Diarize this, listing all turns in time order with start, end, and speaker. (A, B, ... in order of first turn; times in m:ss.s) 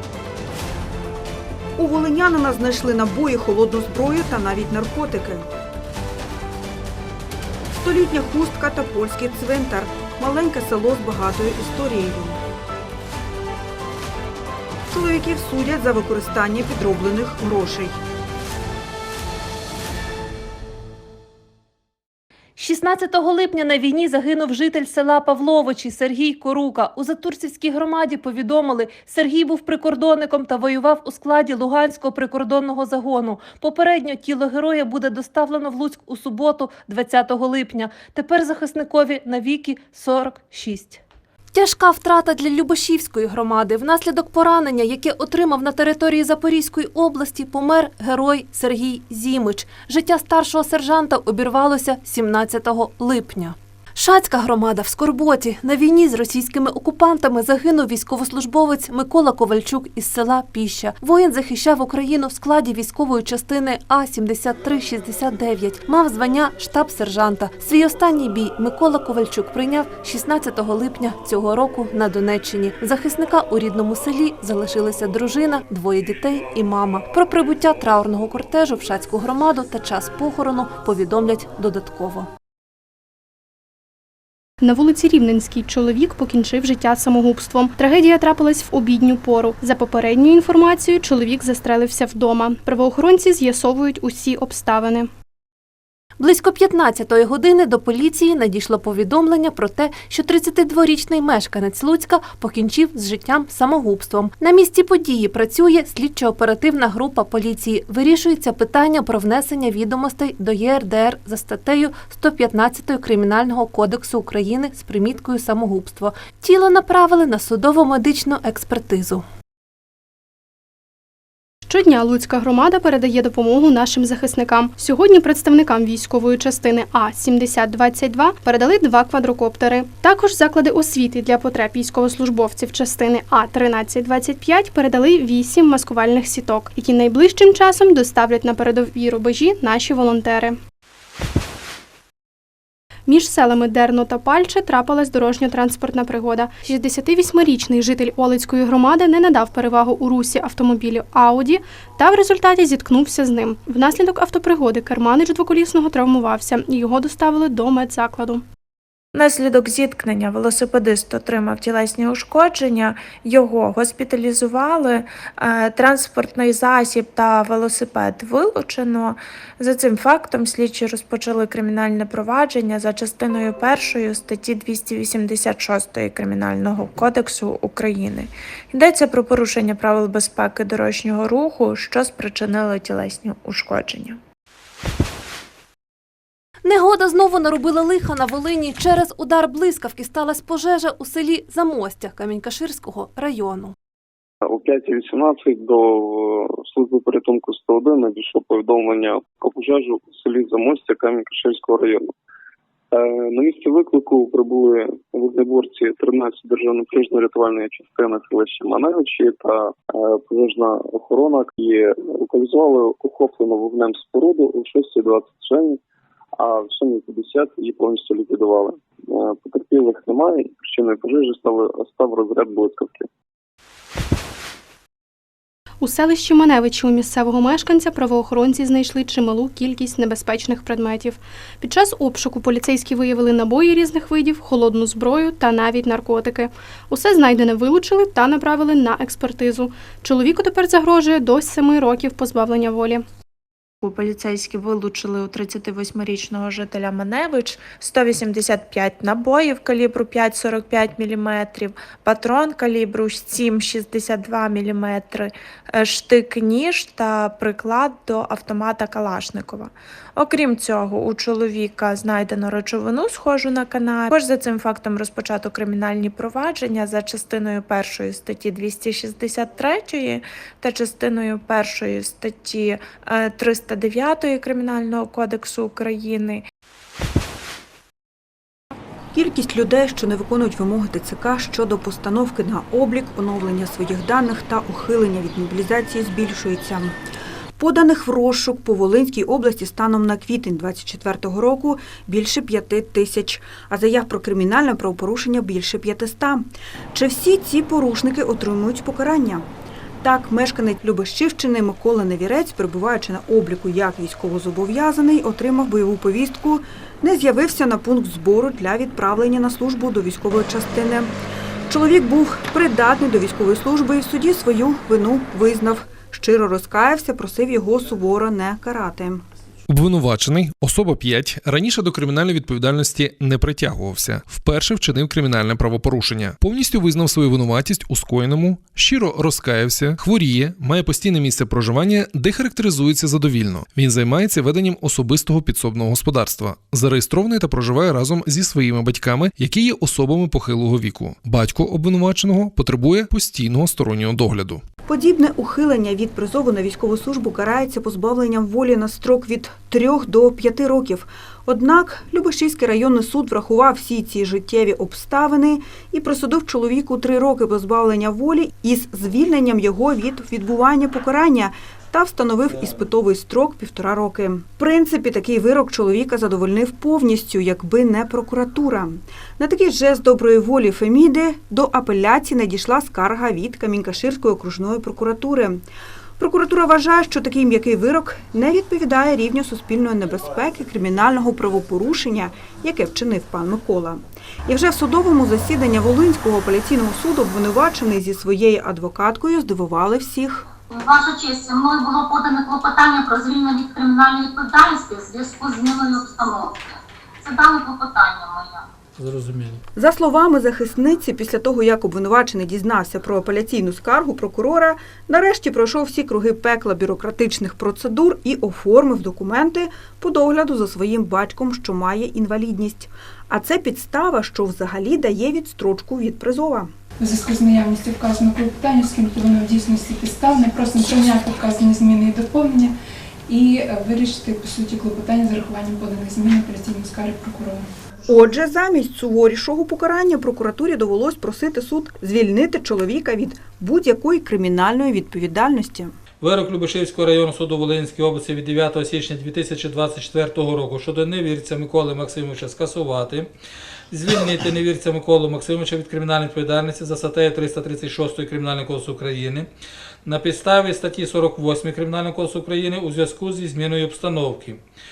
0:01.8-0:05.4 A
0:07.8-0:12.4 A
0:14.9-0:18.0 A
0:22.6-0:41.0 B
0:41.5-1:22.3 B
1:24.6-1:35.1 C
1:36.2-1:59.2 B
2:01.7-2:20.6 C
2:23.1-2:38.4 C
2:39.1-3:04.2 D
3:06.6-3:13.7 B
3:14.4-3:22.1 E
3:22.9-3:35.8 E
3:36.4-3:43.1 E
3:45.8-4:03.0 C
4:03.8-4:36.4 D
4:39.1-4:47.0 A
4:47.6-4:59.5 A
5:00.0-5:11.1 A
5:11.7-5:19.2 A
5:19.7-5:44.6 F
5:44.8-6:15.6 A
6:16.2-6:30.5 A
6:30.6-6:38.6 G
6:39.0-6:39.6 H
6:39.7-6:56.7 A
6:57.0-7:02.7 I
7:03.3-7:07.6 I
7:08.1-7:16.0 A
7:16.2-7:23.3 H
7:23.9-7:29.5 H
7:30.0-7:34.6 H